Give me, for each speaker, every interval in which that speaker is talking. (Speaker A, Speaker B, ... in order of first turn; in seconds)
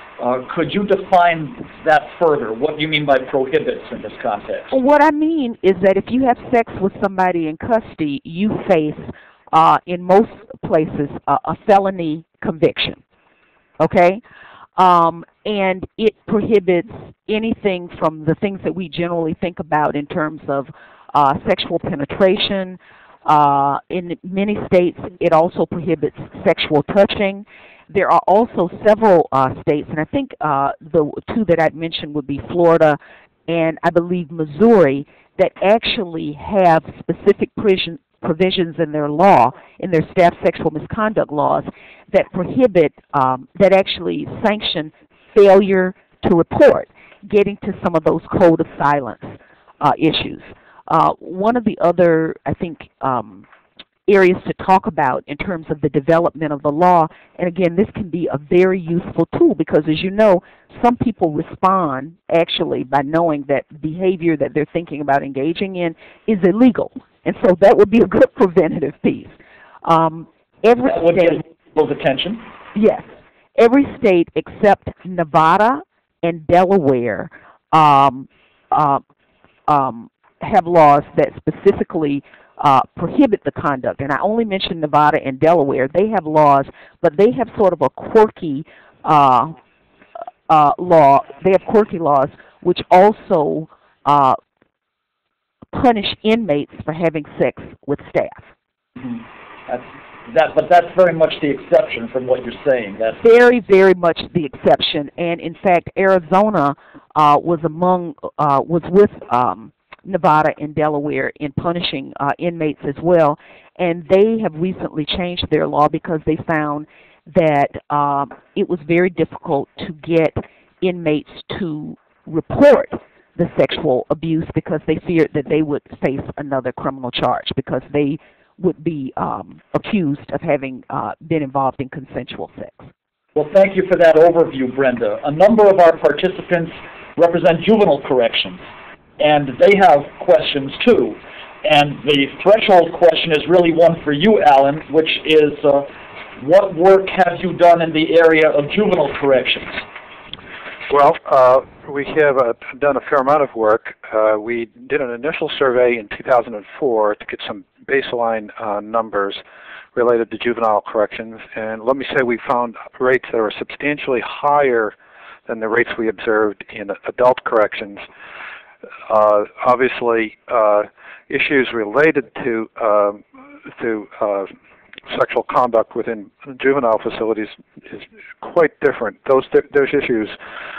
Speaker A: 0.2-4.7, 70.8-72.4, 99.0-103.2, 133.4-138.6, 139.2-149.8
Speaker B: 4.7-13.0, 13.8-14.2, 14.8-53.5, 54.1-71.4, 72.8-79.0, 79.7-89.5, 90.5-94.4, 95.7-98.5, 103.2-132.8
Speaker C: 150.9-159.4, 159.9-164.9, 165.5-168.0, 169.1-174.5, 175.1-180.4